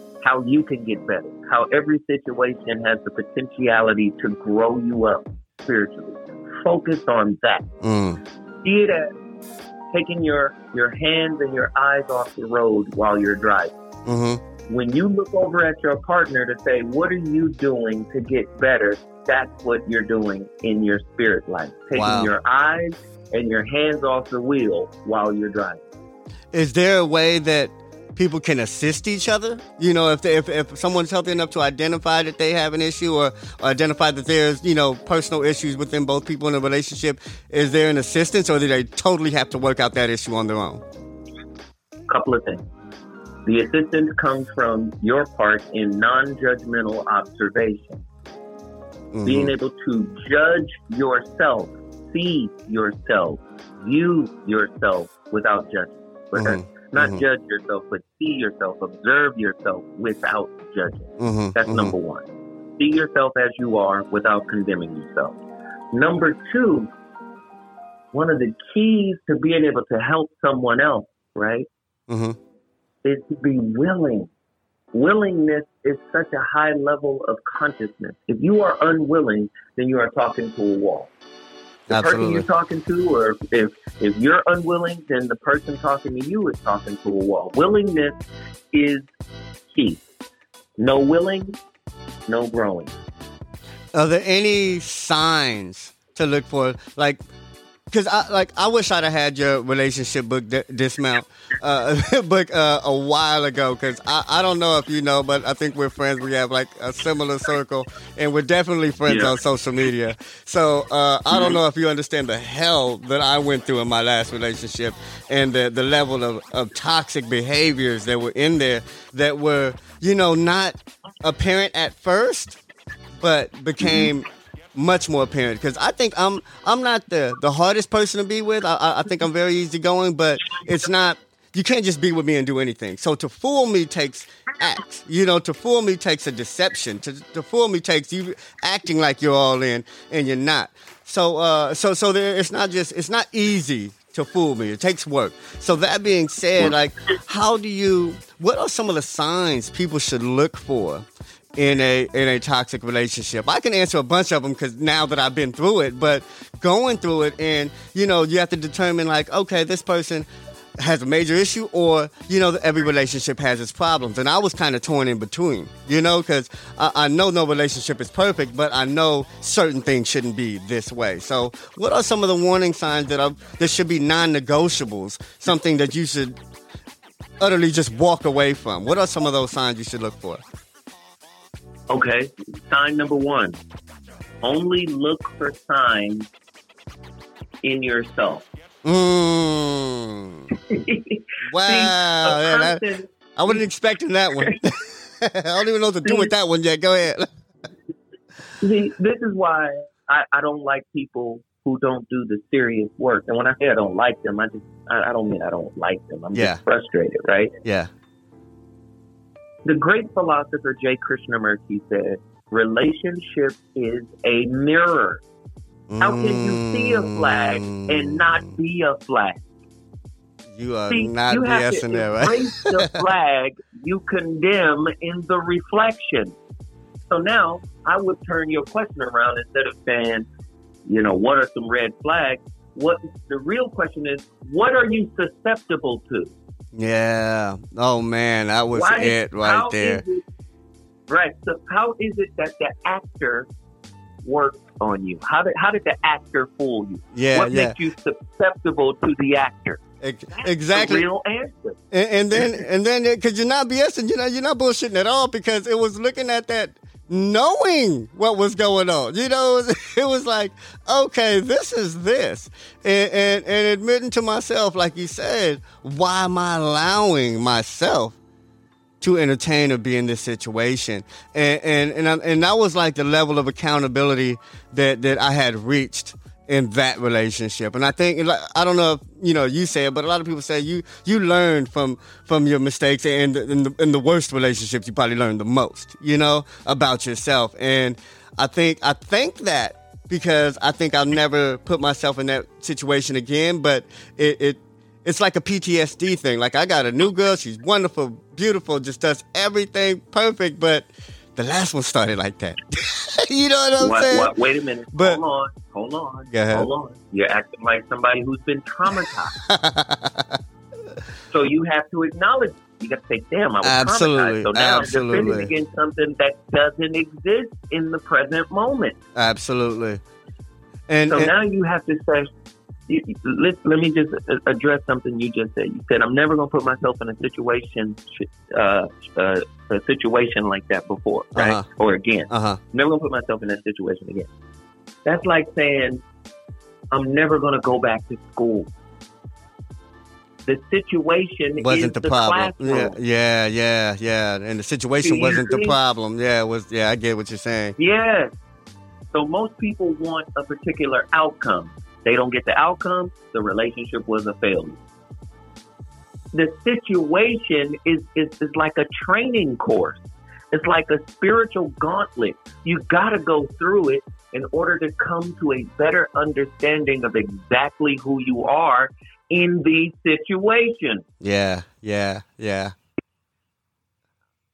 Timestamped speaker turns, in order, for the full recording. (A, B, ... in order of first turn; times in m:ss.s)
0:00.2-0:07.6 A
0:07.8-0:08.2 B
0:08.6-0:09.1 A
0:09.9-0:13.7 A
0:14.0-0:14.4 B
0:14.7-0:25.8 A
0:21.9-0:22.3 B
0:26.5-0:40.8 B
0:42.1-0:42.6 A
0:43.4-0:48.0 A
0:49.1-0:49.5 B
0:49.2-1:02.3 A
0:56.4-0:57.2 B
1:01.2-1:02.0 B
1:02.8-1:05.4 A
1:05.9-1:06.9 A
1:08.1-1:11.7 A
1:12.1-1:12.4 B
1:13.0-1:14.3 A
1:14.9-1:21.1 A
1:21.9-1:22.5 B
1:21.9-1:28.2 A
1:28.7-1:29.1 A
1:29.7-1:30.0 A
1:30.8-1:31.6 A
1:32.3-1:32.9 A
1:33.9-1:37.2 B
1:37.9-2:02.6 B
1:49.1-1:49.4 A
1:51.3-1:51.6 A
2:03.2-2:31.1 B
2:31.6-2:40.3 B
2:40.8-2:56.4 B
2:57.4-3:00.4 B
3:01.9-3:03.6 A
3:04.4-3:06.3 A
3:07.6-3:08.5 A
3:08.8-3:10.5 B
3:10.6-3:13.6 A
3:11.5-3:12.8 B
3:13.4-3:17.3 B
3:16.0-3:16.3 A
3:18.6-3:27.6 A
3:26.4-3:26.6 B
3:27.6-3:27.9 B
3:29.6-3:35.2 A
3:35.9-3:38.4 B
3:36.0-3:39.4 A
3:40.5-3:43.0 B
3:40.9-3:46.4 A
3:47.1-3:50.3 A
3:50.9-3:56.3 A
3:56.7-4:00.0 B
3:58.7-4:00.2 A
4:01.1-4:03.5 A
4:04.2-4:09.8 A
4:07.1-4:07.8 B
4:10.0-4:11.0 B
4:10.3-4:11.8 A
4:11.9-4:28.2 B
4:29.0-5:04.3 B
5:03.8-5:09.4 A
5:04.9-5:05.2 B
5:06.3-5:06.7 B
5:09.4-5:10.4 B
5:11.3-5:19.0 A
5:13.6-5:15.5 B
5:19.2-5:20.0 B
5:20.9-5:21.3 B
5:21.1-5:22.3 A
5:22.9-5:34.3 A
5:31.4-5:31.7 B
5:32.3-5:32.6 B
5:35.0-5:36.0 A
5:36.9-5:38.7 A
5:40.5-5:43.0 A
5:41.6-5:47.8 B
5:45.0-5:45.8 A
5:47.8-5:48.4 A
5:49.1-5:54.8 A
5:56.3-6:00.0 A
6:00.5-6:11.0 A
6:11.2-6:12.8 B